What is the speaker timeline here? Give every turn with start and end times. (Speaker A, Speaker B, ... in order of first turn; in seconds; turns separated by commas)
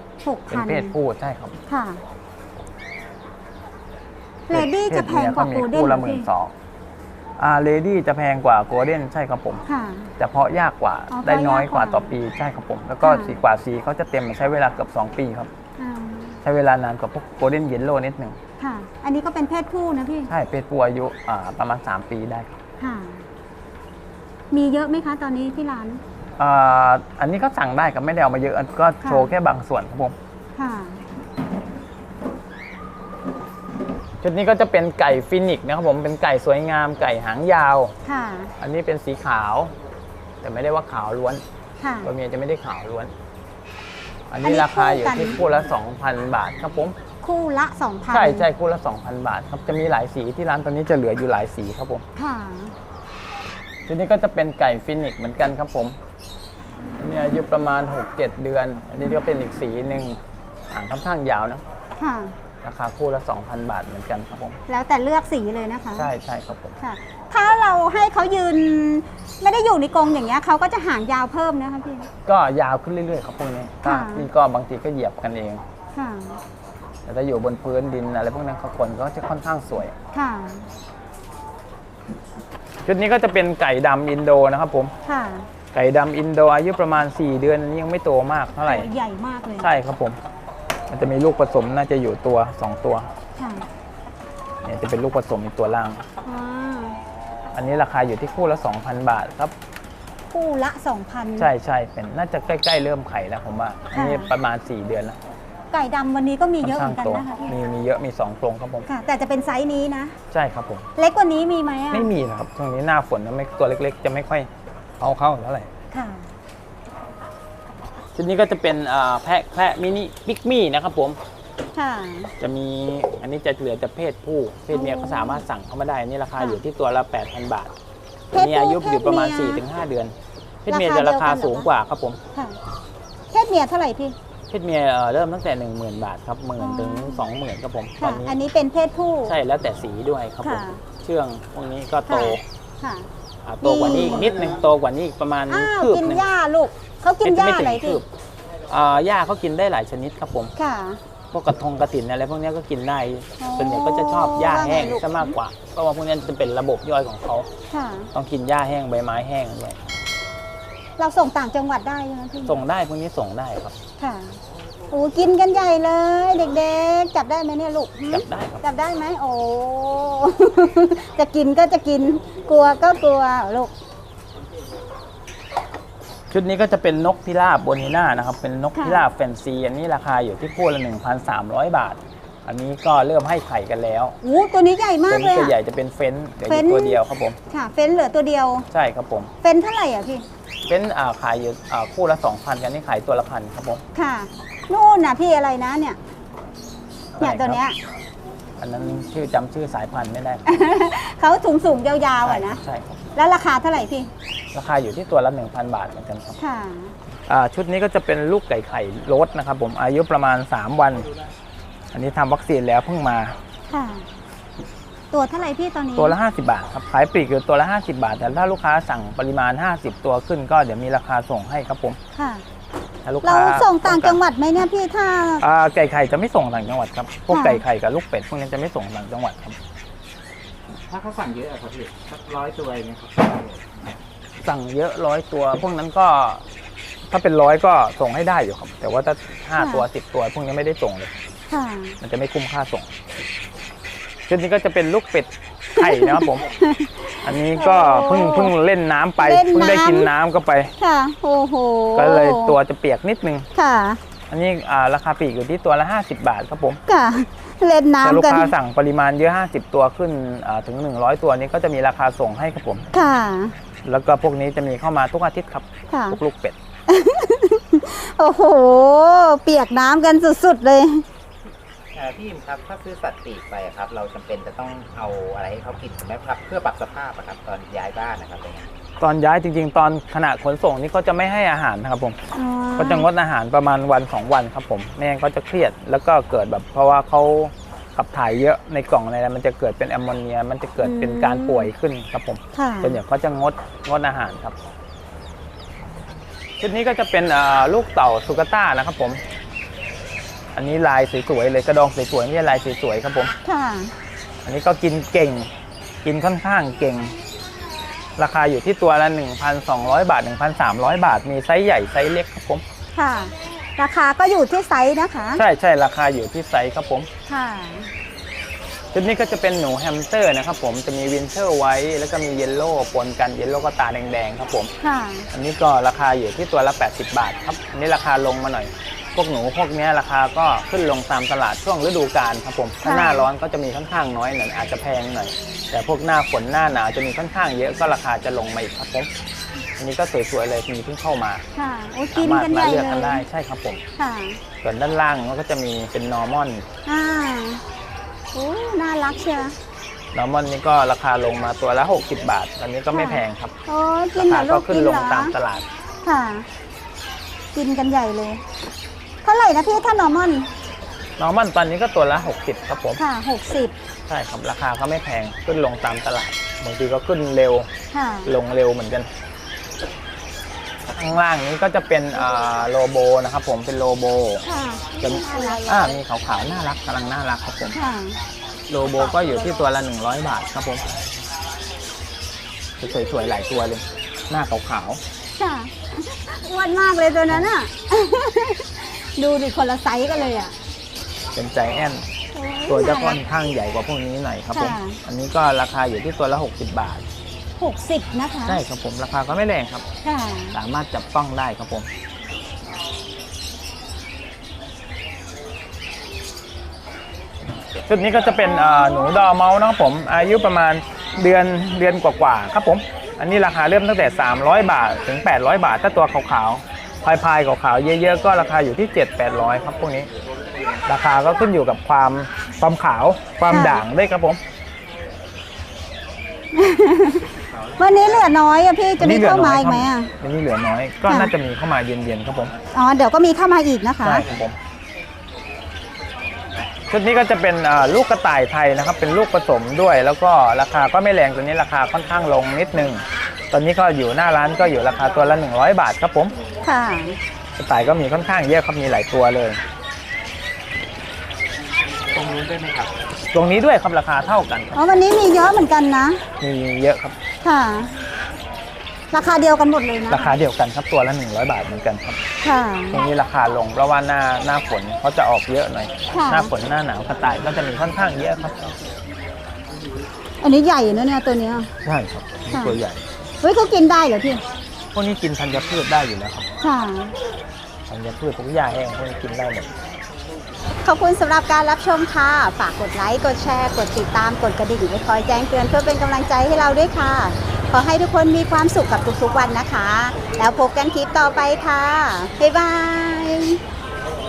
Speaker A: 0.2-0.9, Speaker B: 0.5-1.5, Speaker A: 1.7-2.0, Speaker A: 4.5-6.3, Speaker B: 4.5-6.5, Speaker B: 7.4-9.6, Speaker A: 9.7-10.1, Speaker B: 10.2-15.5, Speaker A: 11.1-12.1, Speaker A: 13.0-13.4, Speaker A: 15.8-16.4, Speaker B: 16.4-18.4, Speaker A: 18.6-20.3, Speaker B: 20.3-22.5, Speaker A: 22.8-23.3, Speaker A: 24.5-26.0, Speaker B: 26.4-30.1, Speaker A: 29.0-29.3, Speaker A: 30.6-31.0, Speaker B: 34.2-37.9, Speaker A: 38.0-38.5, Speaker B: 38.6-39.7, Speaker B: 40.4-41.4, Speaker A: 41.8-42.1, Speaker B: 42.0-43.1, Speaker B: 44.3-47.0, Speaker A: 44.4-45.4, Speaker A: 47.2-48.5, Speaker B: 48.1-52.0, Speaker A: 52.1-52.7, Speaker B: 53.9-56.0, Speaker B: 57.0-60.2, Speaker B: 60.7-61.6, Speaker A: 62.0-62.3, Speaker B: 62.6-64.6, Speaker A: 64.7-66.1, Speaker B: 66.0-66.7, Speaker A: 66.8-72.1, Speaker B: 72.2-75.6, Speaker A: 73.8-74.3, Speaker A: 75.9-76.4, Speaker B: 77.0-79.9, Speaker A: 80.1-80.7, Speaker B: 82.8-84.9, Speaker A: 85.0-85.5, Speaker B: 85.7-88.9, Speaker A: 88.6-89.7, Speaker B: 89.6-90.2, Speaker B: 90.9-93.1, Speaker A: 93.4-93.7, Speaker B: 94.6-96.0, Speaker A: 96.2-97.0, Speaker B: 97.5-99.5, Speaker A: 100.3-101.5, Speaker B: 101.4-105.2, Speaker A: 103.9-104.3, Speaker A: 105.7-107.5, Speaker B: 106.6-108.9, Speaker A: 108.9-110.1, Speaker B: 110.3-110.8, Speaker A: 111.0-112.1, Speaker B: 111.9-115.7, Speaker A: 115.9-116.3, Speaker B: 118.1-121.2, Speaker A: 121.7-122.3, Speaker B: 122.4-127.7, Speaker A: 124.7-125.4, Speaker A: 128.3-129.6, Speaker B: 128.3-130.1, Speaker B: 130.7-132.2, Speaker A: 130.7-131.7, Speaker A: 133.3-134.2, Speaker B: 134.5-138.3, Speaker A: 136.6-137.2, Speaker A: 138.0-139.3, Speaker B: 139.2-142.4, Speaker A: 140.4-140.8, Speaker A: 142.1-143.1, Speaker B: 143.4-146.2, Speaker A: 143.6-144.4, Speaker A: 145.5-148.0, Speaker B: 147.2-148.0, Speaker B: 148.7-150.5, Speaker A: 150.6-151.0, Speaker B: 151.3-157.5, Speaker A: 153.4-155.3, Speaker A: 157.7-158.1, Speaker B: 158.1-159.8, Speaker A: 161.0-162.6, Speaker B: 162.4-163.7, Speaker A: 164.0-164.4, Speaker A: 164.9-173.7, Speaker B: 168.1-168.6, Speaker B: 176.3-184.2, Speaker A: 178.7-179.1, Speaker A: 184.2-185.5, Speaker B: 185.1-187.4, Speaker A: 186.4-188.7, Speaker B: 188.7-189.3, Speaker A: 189.4-190.2, Speaker B: 190.7-193.8, Speaker A: 193.9-196.0, Speaker B: 197.2-197.6, Speaker A: 197.2-197.8, Speaker B: 198.6-200.5, Speaker A: 200.4-202.6, Speaker B: 202.2-203.0, Speaker A: 203.1-204.1, Speaker B: 204.5-206.4, Speaker A: 206.4-206.9, Speaker B: 207.3-211.1, Speaker B: 211.9-213.4, Speaker A: 213.7-214.1, Speaker A: 215.1-216.2, Speaker B: 215.9-222.0, Speaker A: 222.1-222.4, Speaker B: 223.0-224.2, Speaker A: 223.2-225.4, Speaker B: 225.4-229.6, Speaker A: 227.3-227.6, Speaker C: 230.9-233.7, Speaker B: 234.4-236.4, Speaker B: 237.1-241.1, Speaker A: 239.6-239.8, Speaker A: 241.5-242.0, Speaker B: 242.0-242.9, Speaker B: 244.3-246.5, Speaker A: 245.8-248.5, Speaker B: 247.2-250.7, Speaker A: 249.2-250.1, Speaker A: 250.8-252.6, Speaker B: 251.9-253.5, Speaker A: 253.5-254.0, Speaker B: 254.3-256.8, Speaker A: 256.9-258.5, Speaker B: 258.0-262.9, Speaker A: 262.9-263.5, Speaker B: 263.8-266.6, Speaker A: 265.9-266.2, Speaker A: 266.9-271.0, Speaker C: 271.9-278.7, Speaker B: 279.0-282.2, Speaker A: 282.3-283.1, Speaker B: 282.8-294.6, Speaker A: 290.8-291.7, Speaker A: 292.5-293.0, Speaker B: 296.6-299.2, Speaker B: 300.5-303.3, Speaker A: 303.4-303.9, Speaker B: 304.4-305.5, Speaker B: 306.0-307.1, Speaker B: 308.2-312.6, Speaker A: 312.9-315.4, Speaker B: 315.3-317.1, Speaker A: 317.3-317.9, Speaker B: 318.9-324.7, Speaker A: 324.8-325.3, Speaker B: 325.3-339.1, Speaker A: 332.8-333.3, Speaker B: 339.8-341.4, Speaker A: 341.5-343.2, Speaker B: 342.1-343.8, Speaker A: 344.0-344.4, Speaker B: 344.6-346.6, Speaker A: 346.9-347.6, Speaker A: 348.3-349.5, Speaker B: 350.1-353.5, Speaker A: 352.9-355.3, Speaker B: 354.1-355.6, Speaker A: 356.0-356.5, Speaker A: 357.5-358.4, Speaker A: 359.2-360.5, Speaker B: 361.2-363.0, Speaker A: 363.0-363.7, Speaker B: 364.1-367.7, Speaker A: 367.9-368.3, Speaker B: 368.2-369.1, Speaker B: 370.9-374.4, Speaker A: 374.4-376.0, Speaker B: 375.0-377.8, Speaker A: 377.7-378.2, Speaker B: 378.7-380.9, Speaker A: 378.9-379.6, Speaker B: 382.8-385.0, Speaker A: 385.4-390.5, Speaker B: 391.3-392.1, Speaker A: 392.3-393.2, Speaker B: 392.7-397.0, Speaker A: 394.5-395.0, Speaker A: 397.6-398.6, Speaker B: 398.4-399.8, Speaker A: 400.0-400.6, Speaker B: 400.5-401.9, Speaker B: 407.8-420.1, Speaker A: 408.3-409.2, Speaker B: 420.9-424.4, Speaker A: 423.5-423.8, Speaker A: 426.5-430.1, Speaker B: 429.0-432.5, Speaker A: 431.1-431.3, Speaker A: 432.7-434.3, Speaker B: 434.0-434.6, Speaker B: 436.9-446.3, Speaker A: 446.6-447.2, Speaker B: 447.6-449.6, Speaker C: 452.1-452.9, Speaker B: 453.3-454.9, Speaker A: 454.7-456.2, Speaker B: 456.4-457.1, Speaker A: 457.4-457.9, Speaker A: 459.1-460.4, Speaker B: 460.1-462.2, Speaker A: 462.4-463.0, Speaker B: 462.9-468.6, Speaker A: 466.1-466.5, Speaker A: 470.4-471.7, Speaker B: 471.8-473.0, Speaker A: 472.5-472.8, Speaker A: 473.4-474.4, Speaker B: 474.9-476.5, Speaker A: 476.6-477.1, Speaker B: 477.9-479.7, Speaker A: 480.8-493.6